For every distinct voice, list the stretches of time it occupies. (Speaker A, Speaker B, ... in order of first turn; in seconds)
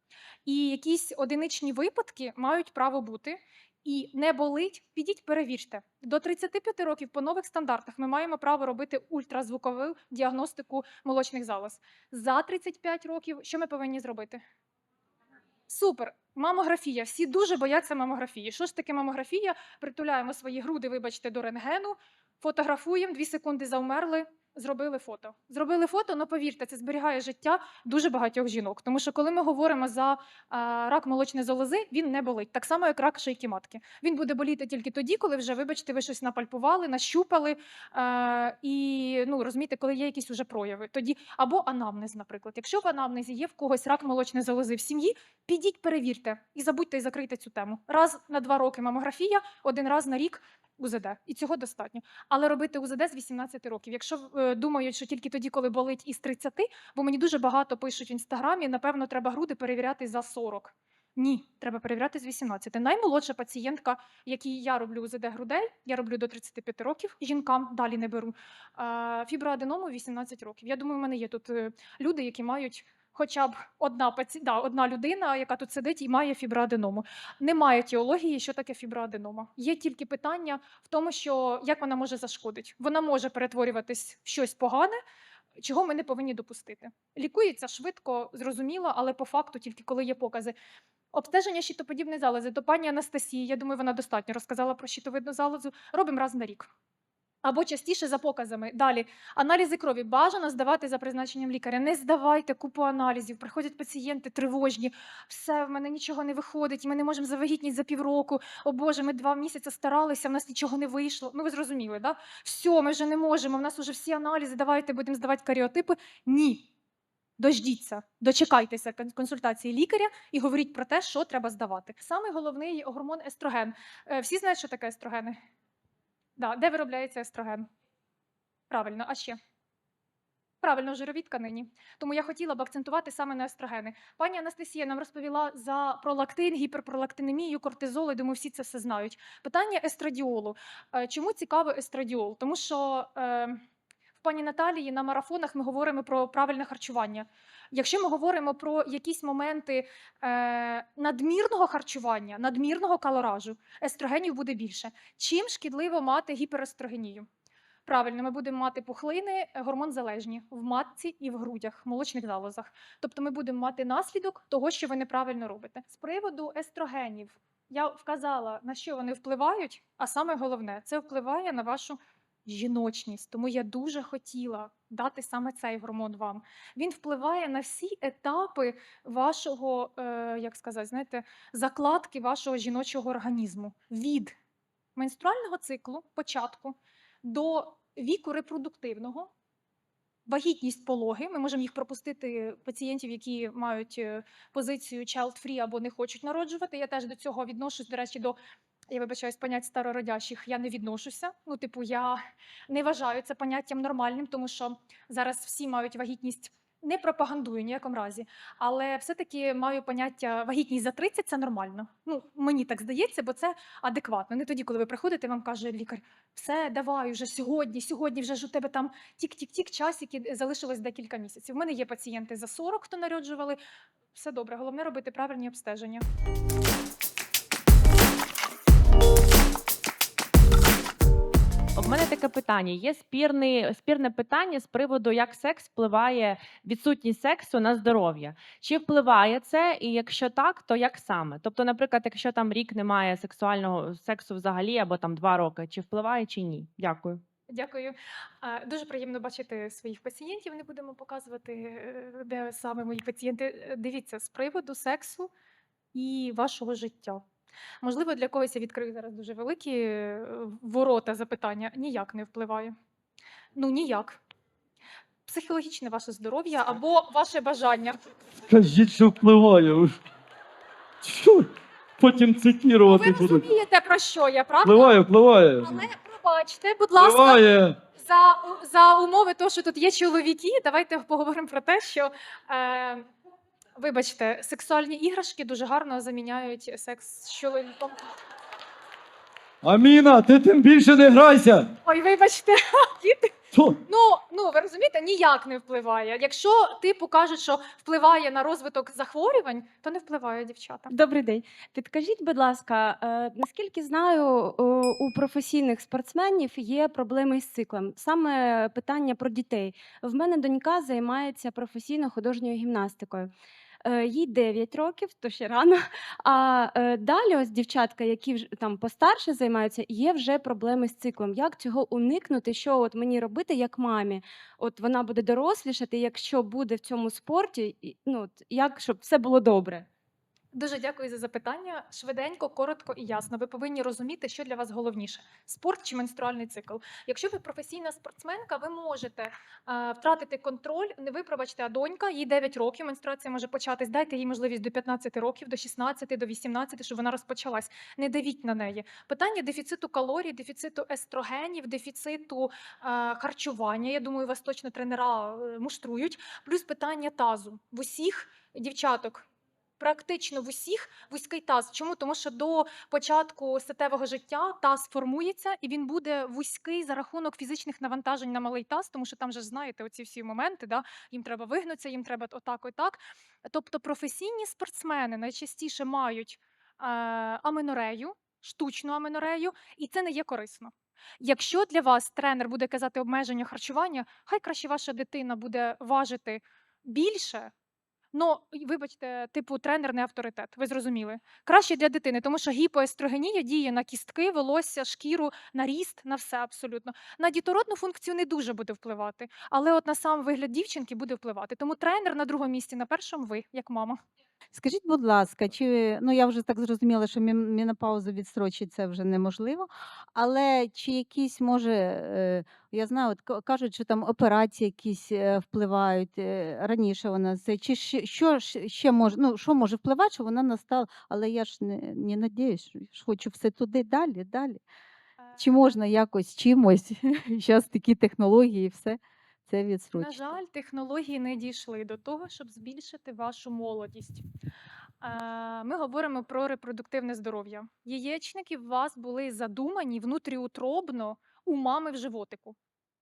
Speaker A: 0.5-14.4, 15.7-85.0, 85.6-90.5, 91.1-96.7, 97.4-116.7, 117.4-125.4, 126.4-127.7, 128.7-129.4, 130.6-143.6, 144.2-157.3, 157.9-184.3, 185.0-189.3, 190.3-198.4, 198.9-223.6, 224.1-226.1, 247.5-255.3, 255.9-257.2, 257.8-262.8, 263.6-264.2, 265.3-268.0, 272.9-274.9, 275.6-277.4, 278.0-283.1, 283.8-288.1, 291.9-293.3, 293.9-300.9, 330.5-359.2, 359.8-387.5, 388.1-404.0, 425.2-425.6, 429.9-434.2, 435.0-442.6
Speaker B: 231.8-247.2
Speaker C: 268.5-270.0, 271.0-273.5, 274.6-275.8, 277.0-277.8, 289.6-291.7, 293.5-293.8
Speaker D: 300.9-313.3, 313.8-329.9
Speaker E: 404.5-424.6, 425.4-430.2